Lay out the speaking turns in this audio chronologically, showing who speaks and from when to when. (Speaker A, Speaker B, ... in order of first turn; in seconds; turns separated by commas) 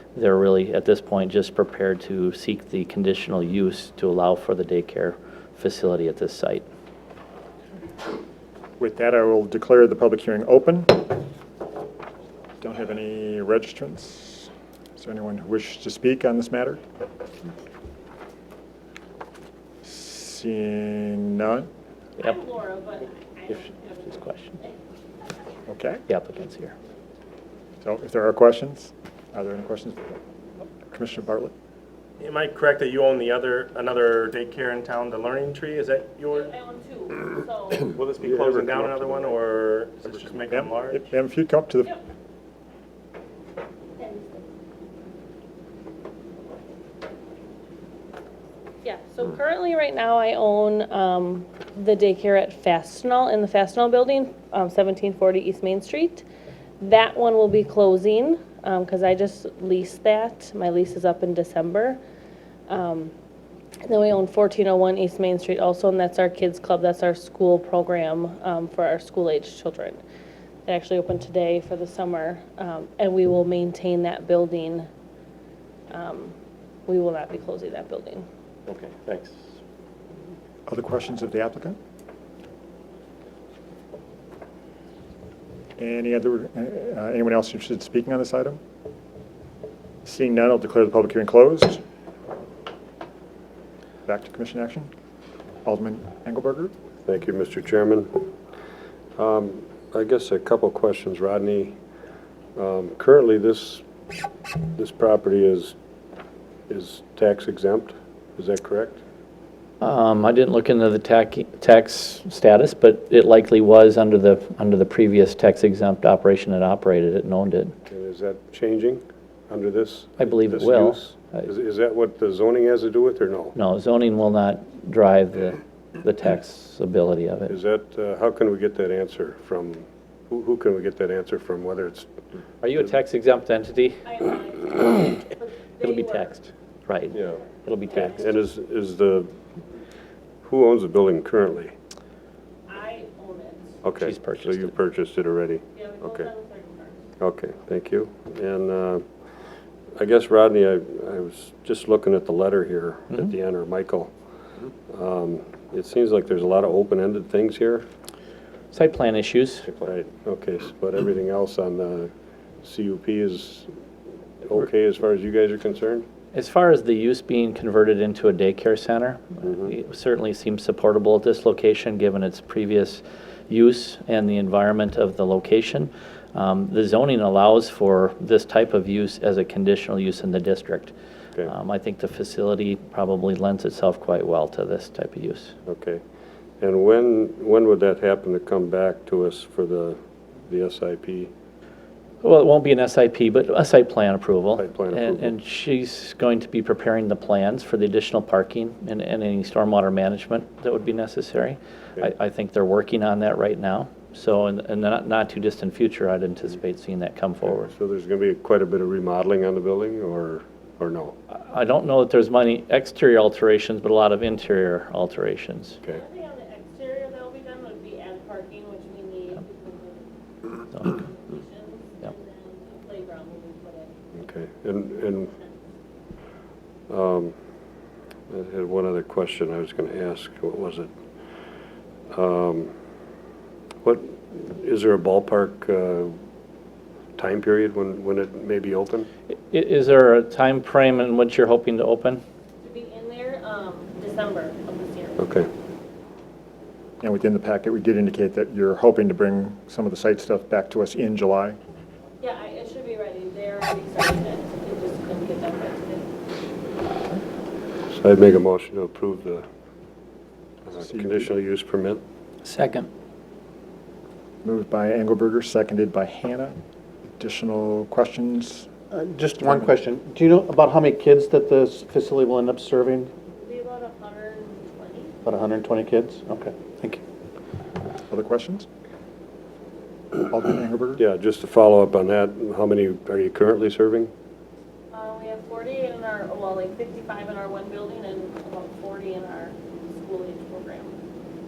Speaker A: 0.1-6.7, Speaker B: 8.8-11.1, Speaker B: 12.6-16.8, Speaker B: 19.8-21.7, Speaker C: 22.2-24.7, Speaker A: 23.5-24.6, Speaker B: 25.7-26.0, Speaker A: 26.1-26.7, Speaker B: 27.8-30.2, Speaker B: 30.8-31.5, Speaker D: 32.2-36.5, Speaker C: 36.3-38.0, Speaker D: 37.9-41.0, Speaker E: 38.2-39.3, Speaker B: 40.5-41.9, Speaker C: 48.8-56.2, Speaker C: 56.8-62.0, Speaker C: 62.7-63.1, Speaker C: 63.8-70.0, Speaker C: 70.7-74.9, Speaker C: 75.9-76.3, Speaker C: 76.9-78.2, Speaker F: 78.7-79.1, Speaker B: 80.7-81.8, Speaker B: 85.8-88.6, Speaker B: 90.0-91.8, Speaker B: 94.0-94.9, Speaker B: 95.6-96.7, Speaker E: 97.0-98.3, Speaker E: 99.2-101.8, Speaker E: 102.5-103.8, Speaker E: 104.7-105.7, Speaker E: 106.7-109.0, Speaker A: 109.8-117.7, Speaker E: 117.9-123.5, Speaker A: 120.2-121.5, Speaker A: 123.5-127.5, Speaker E: 127.5-132.1, Speaker A: 132.6-134.0, Speaker C: 134.0-136.3, Speaker A: 135.8-138.3, Speaker E: 137.9-139.3, Speaker E: 140.4-141.7, Speaker C: 142.7-143.8, Speaker E: 143.8-146.3, Speaker A: 144.0-144.7, Speaker C: 145.7-147.0, Speaker E: 147.2-149.1, Speaker E: 150.0-154.1, Speaker E: 154.9-157.8, Speaker A: 158.7-159.7, Speaker E: 159.7-162.1, Speaker E: 162.6-163.7, Speaker E: 164.4-166.1, Speaker A: 166.3-180.9, Speaker A: 181.4-185.5, Speaker E: 185.7-186.0, Speaker E: 186.6-191.3, Speaker A: 192.2-207.7, Speaker E: 194.6-195.3, Speaker E: 207.6-211.1, Speaker A: 211.3-215.8, Speaker C: 215.9-220.0, Speaker C: 220.6-223.9, Speaker A: 220.7-221.0, Speaker E: 224.1-225.3, Speaker C: 225.0-225.6, Speaker E: 226.9-227.3, Speaker E: 228.3-230.9, Speaker E: 232.1-232.7, Speaker E: 233.8-236.2, Speaker E: 237.2-239.1, Speaker A: 239.5-242.2, Speaker C: 242.6-245.2, Speaker E: 245.2-245.5, Speaker B: 247.0-251.6, Speaker C: 252.2-256.1, Speaker E: 257.9-259.4, Speaker E: 260.6-262.0, Speaker B: 260.8-261.3, Speaker B: 264.4-266.6, Speaker B: 267.2-268.7, Speaker F: 268.9-273.1, Speaker C: 273.4-275.1, Speaker F: 275.3-277.0, Speaker B: 278.1-278.6, Speaker B: 280.2-281.0, Speaker E: 281.0-284.1, Speaker C: 284.9-291.0